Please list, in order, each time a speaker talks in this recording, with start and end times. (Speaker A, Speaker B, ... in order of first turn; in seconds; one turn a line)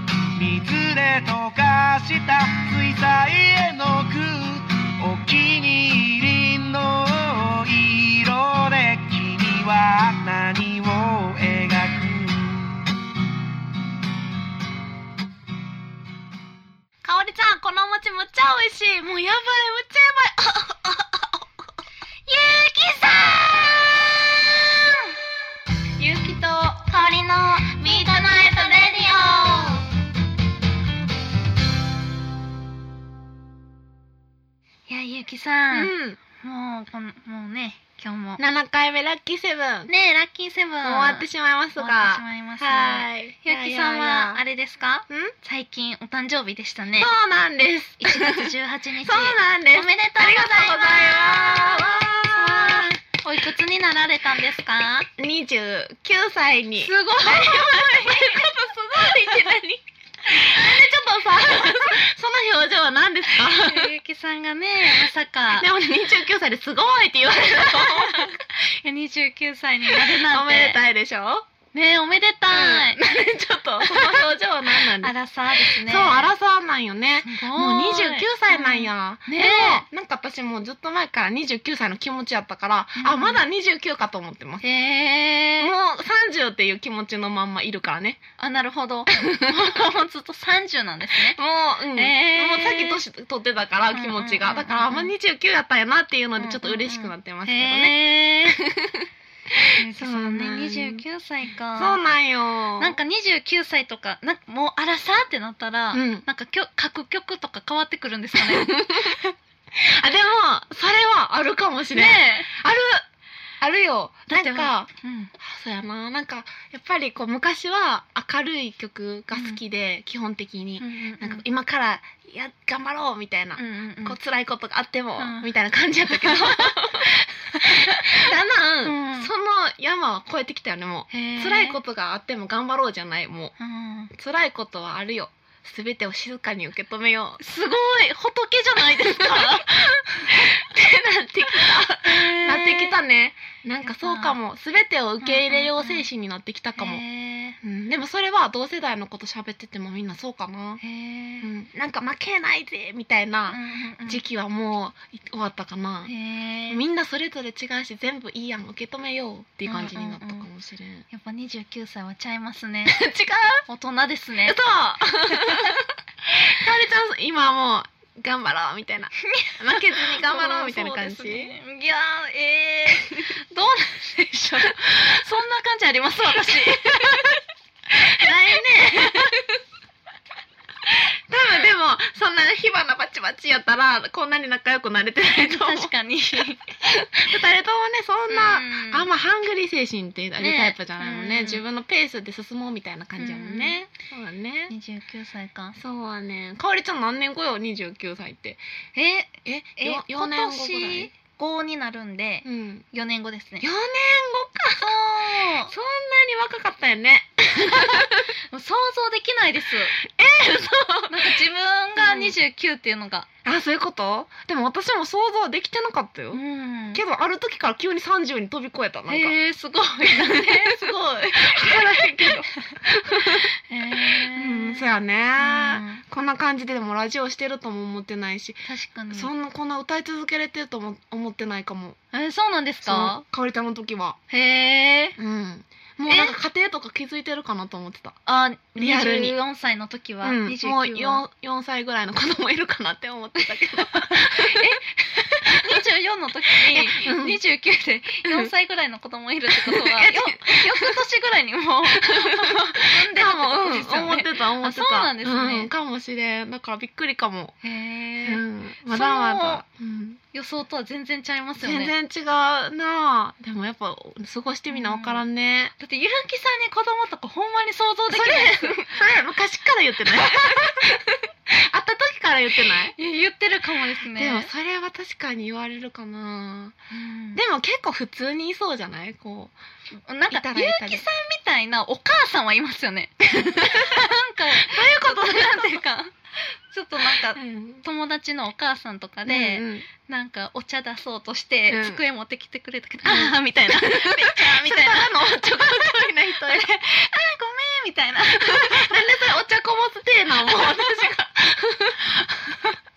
Speaker A: 0.3-12.8
Speaker B: 17.0-21.5
Speaker C: 22.3-25.1
Speaker B: 26.0-29.9
Speaker C: 27.7-29.1
Speaker C: 34.9-38.4
Speaker B: 35.7-36.2
Speaker B: 38.4-39.9
Speaker C: 39.9-47.1
Speaker B: 40.8-44.4
Speaker B: 45.1-45.3
Speaker B: 47.0-53.0
Speaker C: 48.0-55.1
Speaker B: 55.2-63.9
Speaker C: 56.8-58.5
Speaker C: 59.1-59.4
Speaker C: 63.4-65.7
Speaker B: 65.0-68.4
Speaker C: 67.6-70.8
Speaker B: 69.9-71.5
Speaker C: 71.7-73.1
Speaker B: 72.5-84.6
Speaker C: 73.8-74.2
Speaker C: 74.8-76.3
Speaker C: 77.2-79.8
Speaker C: 83.0-83.4
Speaker C: 84.6-85.7
Speaker B: 85.6-88.2
Speaker C: 88.4-91.4
Speaker B: 89.2-89.8
Speaker B: 91.2-101.0
Speaker C: 91.9-93.0
Speaker C: 93.9-95.1
Speaker C: 96.4-98.6
Speaker C: 99.7-102.0
Speaker B: 101.8-103.0
Speaker C: 102.8-109.3
Speaker B: 105.9-106.2
Speaker B: 108.4-109.2
Speaker B: 109.7-113.0
Speaker C: 111.9-112.5
Speaker B: 113.6-133.6
Speaker C: 114.3-115.3
Speaker C: 119.3-119.6
Speaker C: 120.8-121.4
Speaker C: 123.6-124.2
Speaker C: 125.2-125.5
Speaker C: 126.1-128.3
Speaker C: 128.8-129.3
Speaker C: 131.1-131.8
Speaker C: 133.6-134.1
Speaker B: 134.1-137.4
Speaker C: 137.4-140.4
Speaker B: 138.8-147.0
Speaker C: 142.0-143.0
Speaker C: 143.8-144.4
Speaker C: 145.2-146.1
Speaker C: 146.8-147.6
Speaker B: 147.6-150.8
Speaker C: 150.8-151.5
Speaker B: 151.4-156.1
Speaker C: 153.5-154.2
Speaker C: 156.1-156.8
Speaker B: 156.7-161.1
Speaker C: 159.7-160.5
Speaker C: 161.1-163.1
Speaker B: 162.9-163.7
Speaker C: 163.7-164.6
Speaker B: 164.5-171.6
Speaker C: 165.3-165.8
Speaker C: 169.2-177.4
Speaker B: 176.4-177.4
Speaker B: 177.9-179.4
Speaker C: 178.0-179.4
Speaker B: 180.9-185.9
Speaker C: 185.3-186.6
Speaker B: 186.8-194.7
Speaker C: 188.3-189.1
Speaker C: 190.4-191.6
Speaker C: 193.2-193.8
Speaker C: 194.7-195.8
Speaker B: 195.8-198.6
Speaker C: 199.0-203.7
Speaker B: 199.4-201.1
Speaker B: 202.4-202.8
Speaker B: 203.6-204.9
Speaker C: 204.8-205.7
Speaker B: 205.7-208.3
Speaker C: 207.7-210.0
Speaker B: 210.0-211.4
Speaker C: 211.1-213.3
Speaker B: 212.0-212.4
Speaker B: 213.4-216.4
Speaker C: 216.3-217.0
Speaker B: 216.9-219.3
Speaker C: 219.1-226.0
Speaker B: 220.1-232.0
Speaker C: 228.7-229.3
Speaker C: 232.1-233.2
Speaker B: 232.9-234.2
Speaker C: 234.3-235.2
Speaker B: 235.2-238.2
Speaker C: 236.1-236.3
Speaker C: 238.3-241.2
Speaker B: 238.8-239.3
Speaker B: 240.2-244.8
Speaker C: 243.6-255.7
Speaker B: 245.5-245.8
Speaker B: 246.6-247.4
Speaker B: 248.2-248.5
Speaker B: 249.5-251.0
Speaker B: 252.0-257.6
Speaker C: 257.6-259.6
Speaker B: 258.2-260.2
Speaker C: 260.3-261.9
Speaker B: 261.6-265.7
Speaker C: 264.7-265.2
Speaker C: 265.8-269.0
Speaker B: 268.1-272.9
Speaker C: 270.3-270.9
Speaker C: 272.9-274.5
Speaker B: 274.2-276.8
Speaker C: 276.9-277.4
Speaker B: 277.3-279.6
Speaker C: 280.1-299.0
Speaker B: 280.3-281.1
Speaker B: 283.4-285.7
Speaker B: 287.1-287.8
Speaker B: 289.3-289.9
Speaker B: 291.7-292.0
Speaker B: 293.1-296.7
Speaker B: 298.4-302.1
Speaker C: 302.2-302.7